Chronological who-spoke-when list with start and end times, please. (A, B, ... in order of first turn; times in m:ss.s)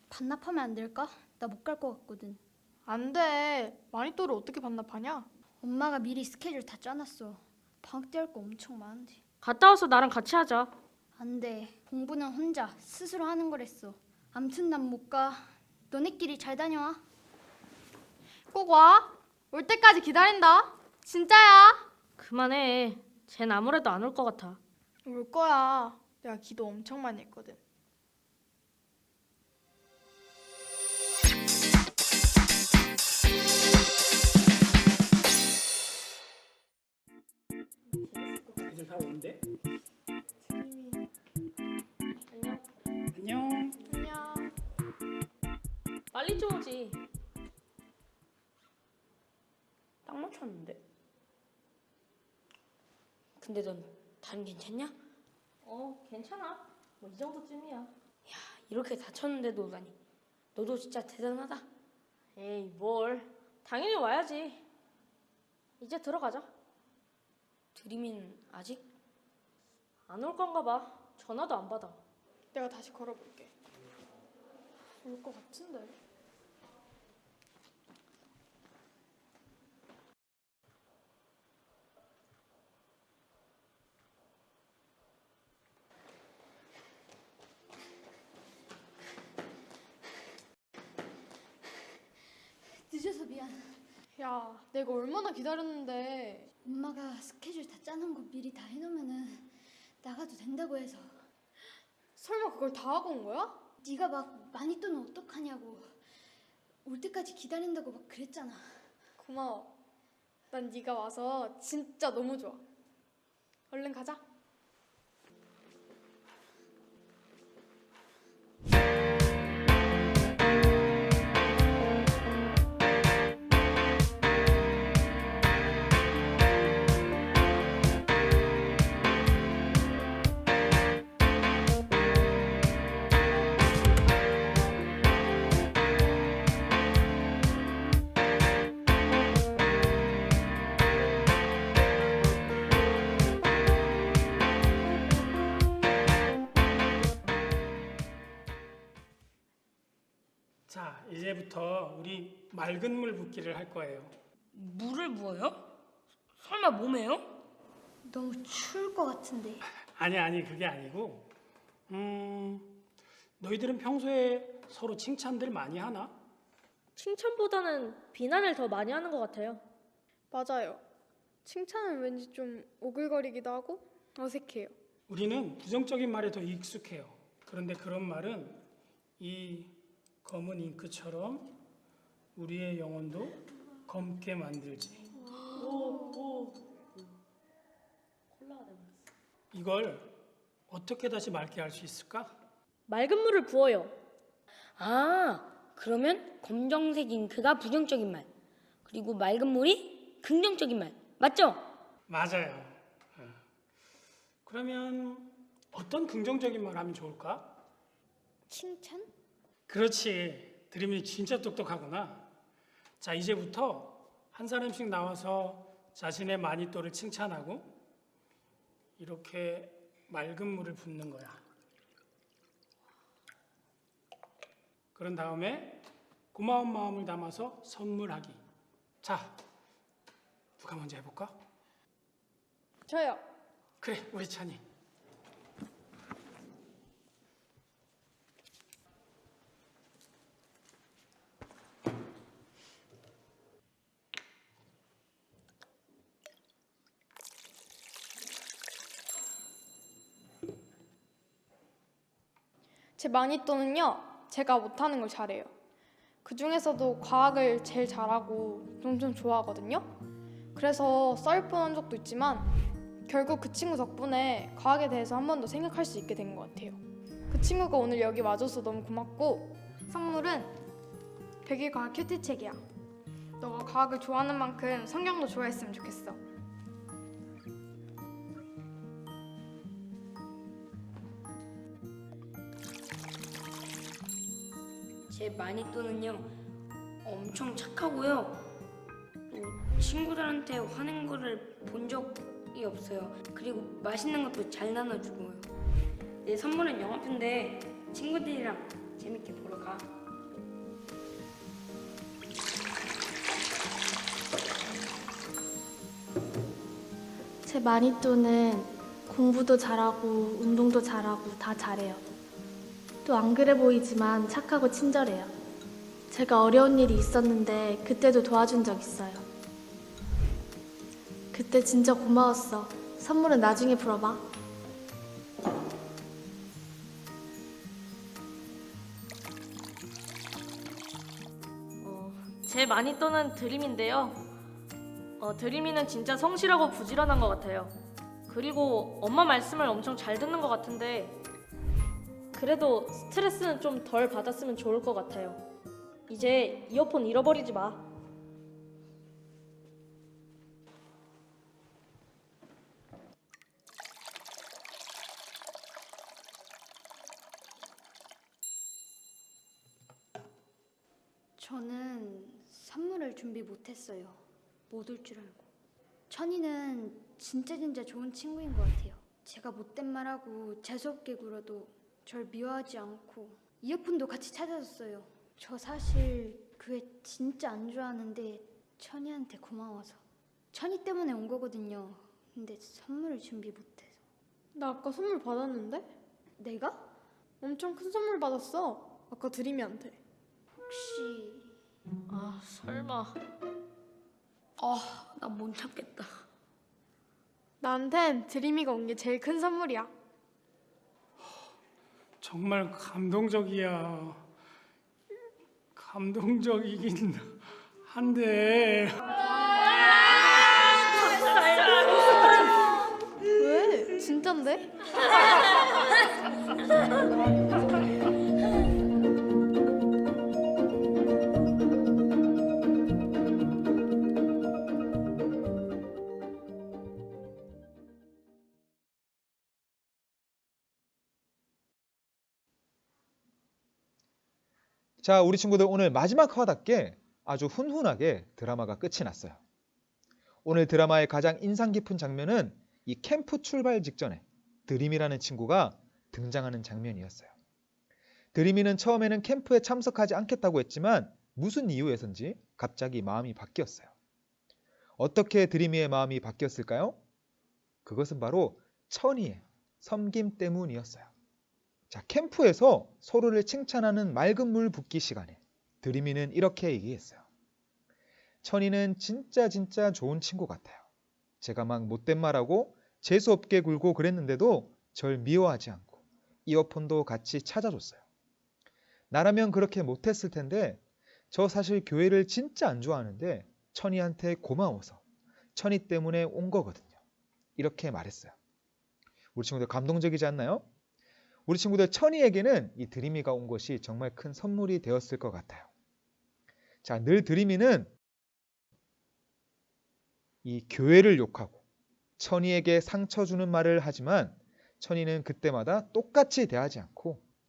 0:00.1-0:02.4 A
0:02.9-0:05.3 B
0:05.6-0:09.2 A
0:09.4-0:10.7 C
0:11.2-0:17.0 A
0:18.5-0:21.9 B
0:22.2-0:24.6 C
0:25.1-0:27.6 B
0:38.6-0:39.4 D
0:40.5-0:41.0 B
0:42.3-0:42.6 C
0:43.1-0:43.8 D
0:43.9-0:44.5 B
0:46.1-0:47.0 C
0:50.0-0:50.8 E
0:53.4-0:55.0 E
0:55.6-0:57.9 C
0:58.3-1:00.0 E
1:00.6-1:01.6 E
1:02.4-1:04.6 C
1:05.8-1:06.5 C
1:07.8-1:08.9 E
1:10.1-1:12.0 C
1:12.5-1:13.5 B
1:15.0-1:16.0 B
1:32.9-1:33.8 A
1:34.2-1:36.5 B
1:36.6-1:41.2 A
1:42.2-1:43.6 B
1:43.8-1:45.9 A
1:46.8-1:48.7 A
1:49.2-1:49.7 B
1:50.5-1:52.6 B
1:53.7-1:54.2 B
2:30.7-2:34.1 D
2:34.5-2:35.7 E
2:36.4-2:37.3 E
2:38.1-2:39.6 A
2:40.0-2:41.3 D
2:41.9-2:42.8 D
2:43.4-2:46.1 D
2:47.0-2:49.6 C
2:50.3-2:50.8 B
2:51.4-2:54.8 B
2:55.1-2:58.6 D
2:59.2-3:01.5 D
3:02.4-3:05.1 D
3:05.6-3:06.5 C
3:08.4-3:09.0 C
3:09.5-3:10.1 D
3:10.7-3:12.4 D
3:12.9-3:14.0 C
3:14.8-3:18.3 E
3:18.8-3:21.7 E
3:22.1-3:23.4 D
3:24.4-3:27.6 D
3:28.5-3:29.1 A
3:29.7-3:32.3 D
3:33.0-3:37.7 D
3:39.0-3:41.4 D
3:45.0-3:48.4 D
3:49.0-3:49.4 D
3:50.6-3:51.4 D
3:52.9-3:53.2 B
3:53.8-3:54.6 D
4:13.0-4:15.5 B
4:16.2-4:19.9 B
4:20.6-4:22.5 B
4:23.1-4:26.8 B
4:27.3-4:30.5 B
4:31.4-4:32.6 B
4:33.4-4:36.2 B
4:45.1-4:46.3 E
4:47.0-4:48.4 E
4:49.3-4:55.5 E
4:56.2-4:59.9 E
5:07.4-5:12.0 F
5:13.0-5:15.3 F
5:16.1-5:19.2 F
5:21.3-5:24.2 F
5:31.8-5:34.2 C
5:35.2-5:37.7 C
5:38.3-5:41.2 C
5:42.3-5:45.4 C
5:46.1-5:47.8 C
6:01.4-6:05.5 A
6:06.1-6:24.0 A
6:24.6-6:25.9 B
6:26.4-6:26.8 A
6:27.4-6:30.0 B
6:30.6-6:31.5 A
6:32.1-6:33.2 C
6:34.6-6:36.2 E
6:37.6-6:39.9 B
6:42.2-6:44.2 D
6:45.8-6:49.0 D
6:53.4-6:54.6 B
7:15.0-7:19.4 G
7:20.4-7:27.3 G
7:28.3-7:33.9 G
7:35.0-7:37.0 G
7:37.8-7:41.1 G
7:41.9-7:47.2 G
7:48.4-7:50.8 G
7:51.4-7:58.0 G
7:59.1-8:05.0 G
8:05.6-8:07.0 G
8:07.6-8:08.4 G
8:09.4-8:10.7 G
8:11.5-8:15.7 G
8:16.8-8:17.9 G
8:20.4-8:21.6 G
8:22.2-8:27.2 G